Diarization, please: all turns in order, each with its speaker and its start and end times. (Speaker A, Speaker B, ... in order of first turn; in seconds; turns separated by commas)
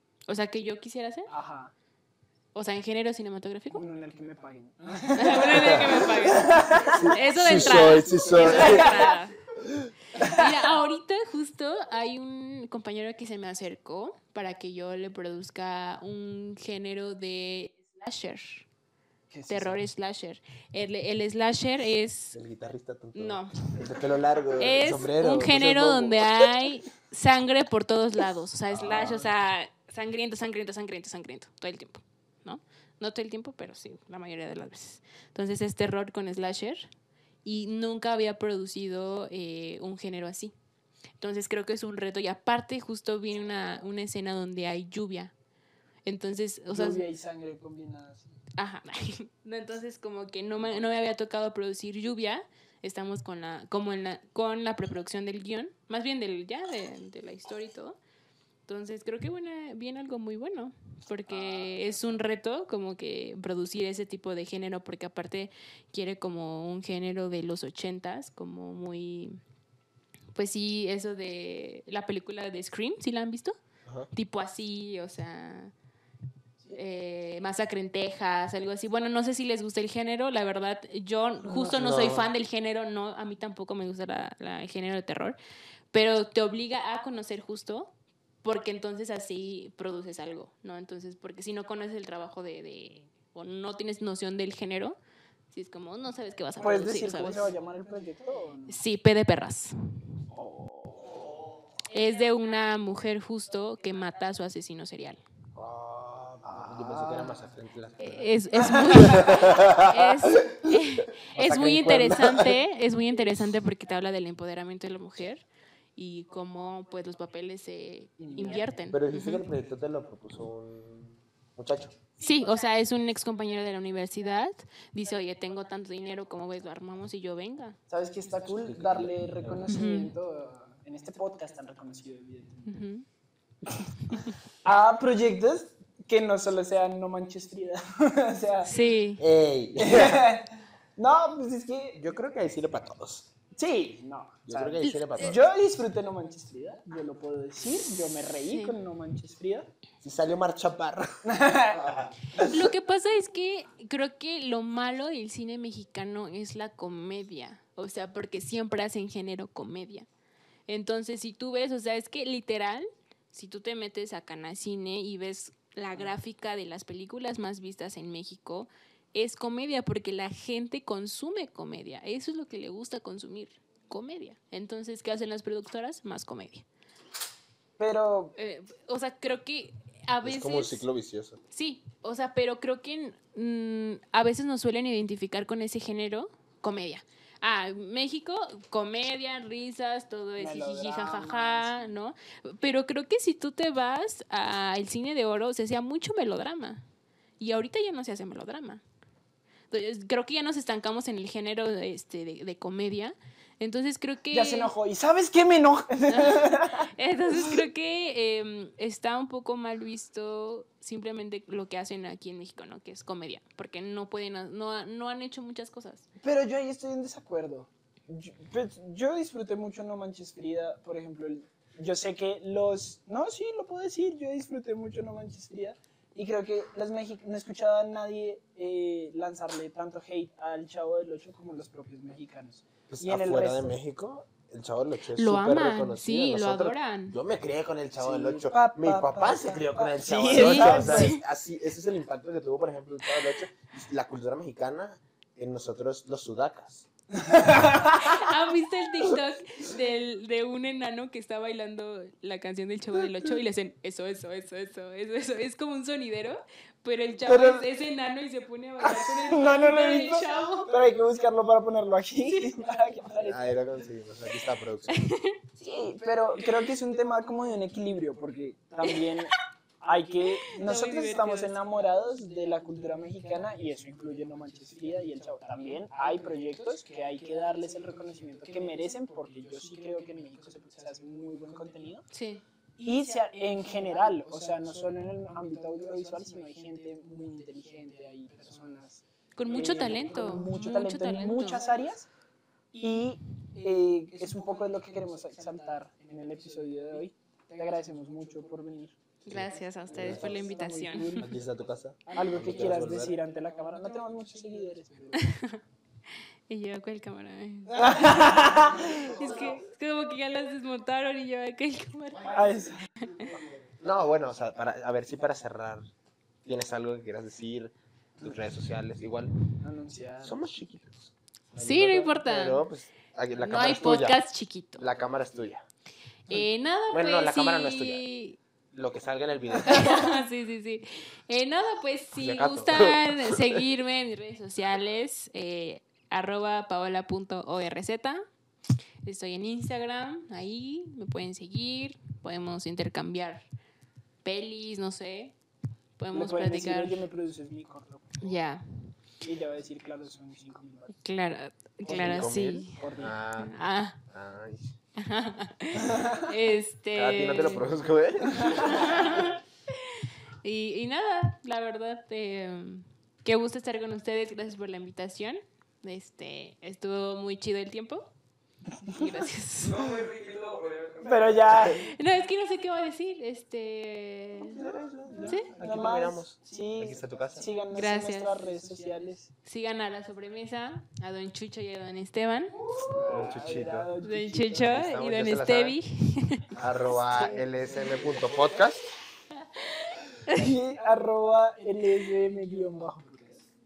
Speaker A: 0.3-1.3, Speaker B: 1.3-1.7, Speaker A: 2.5-3.8, Speaker B: 3.7-9.2, Speaker A: 5.1-9.4, Speaker C: 6.9-9.0, Speaker A: 10.1-18.7, Speaker B: 10.2-10.5, Speaker B: 19.3-19.8, Speaker A: 19.5-22.4, Speaker C: 22.3-26.3, Speaker A: 23.1-23.8, Speaker A: 24.6-36.9, Speaker C: 28.7-29.3, Speaker A: 37.4-40.5, Speaker A: 41.2-45.3, Speaker A: 46.0-47.0, Speaker B: 46.7-48.3, Speaker A: 48.6-58.0, Speaker A: 58.7-69.4, Speaker A: 70.3-73.6, Speaker A: 74.1-75.7, Speaker A: 76.7-85.4, Speaker C: 81.6-82.3, Speaker A: 85.9-87.9, Speaker A: 88.4-95.0, Speaker A: 95.5-97.5, Speaker B: 96.6-98.8, Speaker A: 98.7-99.9, Speaker B: 100.3-101.3, Speaker A: 101.9-105.2, Speaker C: 105.5-112.5, Speaker B: 106.5-107.4, Speaker A: 108.0-115.5, Speaker A: 116.0-119.5, Speaker B: 118.2-118.6, Speaker C: 118.9-122.0, Speaker A: 122.2-127.8, Speaker B: 127.9-132.7, Speaker C: 128.4-129.7, Speaker A: 129.7-130.1, Speaker A: 132.7-133.1, Speaker B: 133.7-138.7, Speaker A: 138.6-139.2, Speaker C: 139.2-140.3, Speaker B: 139.8-142.0, Speaker C: 141.9-143.3, Speaker B: 143.5-149.7, Speaker C: 144.5-145.4, Speaker A: 144.8-145.4, Speaker A: 148.5-148.8, Speaker C: 150.0-151.1, Speaker B: 151.2-152.6, Speaker A: 152.4-160.1, Speaker A: 160.7-176.6, Speaker B: 177.8-178.3, Speaker A: 178.4-180.8, Speaker C: 180.2-181.4, Speaker A: 181.5-196.8, Speaker B: 190.4-191.9, Speaker A: 197.4-198.8, Speaker A: 199.7-204.7, Speaker B: 204.3-206.9, Speaker A: 206.1-216.1, Speaker B: 216.2-233.7, Speaker C: 232.9-246.9, Speaker A: 235.1-237.2, Speaker B: 238.0-241.2, Speaker A: 240.3-241.2, Speaker B: 247.2-248.0, Speaker A: 247.8-260.7, Speaker B: 257.2-257.7, Speaker B: 258.8-263.4, Speaker C: 263.2-265.1, Speaker A: 264.9-265.4, Speaker B: 265.6-282.1, Speaker A: 270.6-271.5, Speaker A: 282.1-282.4, Speaker B: 282.8-292.1, Speaker A: 289.4-291.6, Speaker B: 292.7-298.9, Speaker A: 299.2-301.3, Speaker C: 299.3-300.4, Speaker B: 299.8-301.4, Speaker C: 301.2-303.1, Speaker B: 302.1-305.4, Speaker A: 305.1-305.6, Speaker A: 306.5-312.5, Speaker B: 307.7-309.1, Speaker B: 312.3-312.9, Speaker A: 313.0-313.4, Speaker C: 313.8-315.9, Speaker C: 316.4-319.3, Speaker B: 319.6-320.4, Speaker C: 320.2-324.2, Speaker A: 321.6-322.6, Speaker A: 323.4-324.8, Speaker C: 324.8-325.6, Speaker A: 326.3-328.4, Speaker C: 326.9-328.0, Speaker C: 328.7-330.0, Speaker A: 329.6-338.2, Speaker C: 332.2-333.6, Speaker A: 339.0-343.4, Speaker A: 344.2-345.4, Speaker A: 346.0-347.0, Speaker B: 346.1-348.2, Speaker A: 348.2-348.9, Speaker B: 349.2-351.0, Speaker A: 351.0-352.8, Speaker B: 351.9-353.1, Speaker C: 351.9-353.6, Speaker A: 353.4-354.0, Speaker C: 354.1-354.7, Speaker A: 355.0-357.7, Speaker C: 356.9-359.4, Speaker A: 358.5-368.1, Speaker B: 368.9-369.1, Speaker A: 368.9-369.8, Speaker D: 369.6-371.8, Speaker B: 371.0-371.9, Speaker A: 371.7-374.6, Speaker C: 374.4-377.4, Speaker B: 375.2-379.3, Speaker A: 375.2-375.5, Speaker A: 377.7-378.3, Speaker A: 379.4-382.6, Speaker C: 382.9-383.9, Speaker B: 383.0-384.9, Speaker A: 384.0-386.5, Speaker C: 384.7-385.8, Speaker C: 386.5-388.9, Speaker A: 389.6-390.5, Speaker B: 390.3-393.4